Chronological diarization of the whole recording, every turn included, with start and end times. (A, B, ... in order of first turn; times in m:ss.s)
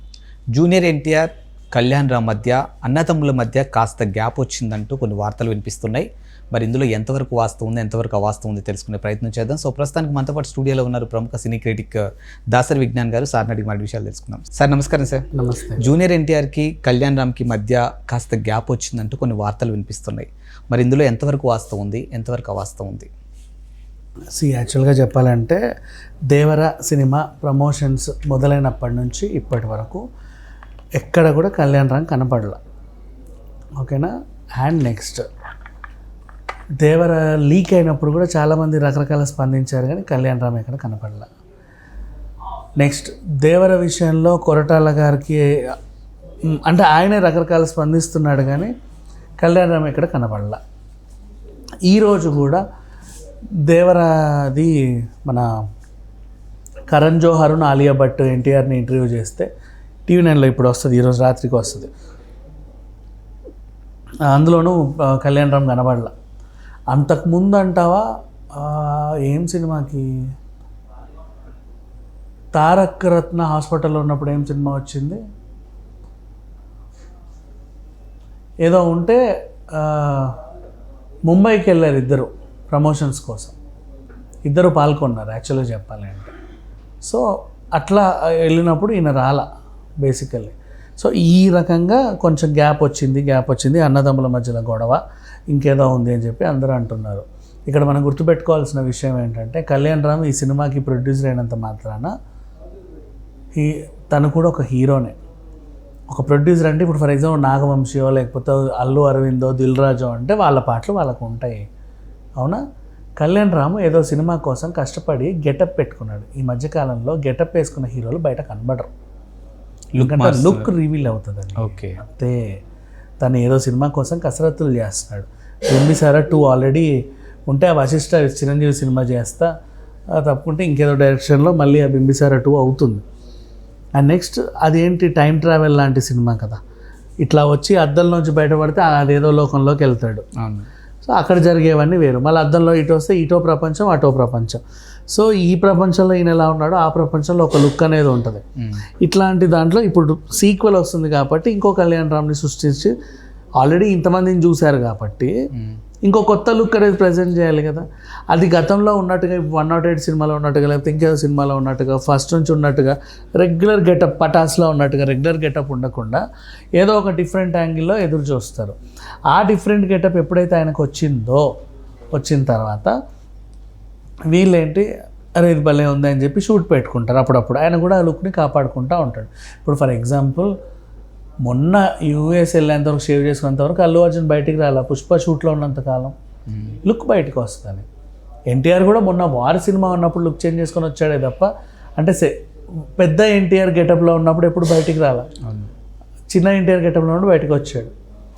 0:00.5-0:12.0 A
0:12.5-0:15.2 A
0:15.3-0:15.8 B
0:15.8-0:23.1 A
0:24.4-0:25.6 B
0:26.3-0:30.0 B
0:31.0-0:32.6 B
0:33.8-0:35.3 B
0:36.8-0:41.3 B
0:42.8-0:45.4 B
0:46.5-0:48.7 B
0:49.4-0:50.6 B
0:51.9-0:52.6 B
0:53.6-0:54.7 B
0:56.9-0:59.5 B
1:00.1-1:01.9 B
1:04.3-1:06.1 B
1:06.9-1:10.1 B
1:12.5-1:15.2 B
1:18.6-1:19.2 B
1:19.7-1:20.4 B
1:21.3-1:23.5 B
1:24.4-1:26.3 B
1:27.7-1:29.4 B
1:30.0-1:42.1 B
1:43.5-1:45.2 B
1:46.1-1:51.6 B
1:53.2-1:58.9 B
1:59.9-2:00.7 A
2:00.0-2:02.5 B
2:01.6-2:02.0 A
2:03.2-2:09.5 B
2:10.1-2:13.0 B
2:14.0-2:16.6 B
2:17.2-2:20.2 B
2:20.4-2:20.7 A
2:21.1-2:28.4 B
2:29.0-2:32.9 B
2:33.6-2:35.3 B
2:36.1-2:46.2 B
2:46.8-2:48.8 B
2:49.3-2:51.4 B
2:52.1-2:52.9 B
2:54.3-2:54.8 B
2:55.4-3:00.5 B
3:01.4-3:06.1 B
3:06.5-3:06.8 A
3:06.8-3:07.8 B
3:08.5-3:12.3 B
3:13.0-3:15.3 B
3:15.4-3:15.7 A
3:16.3-3:17.9 B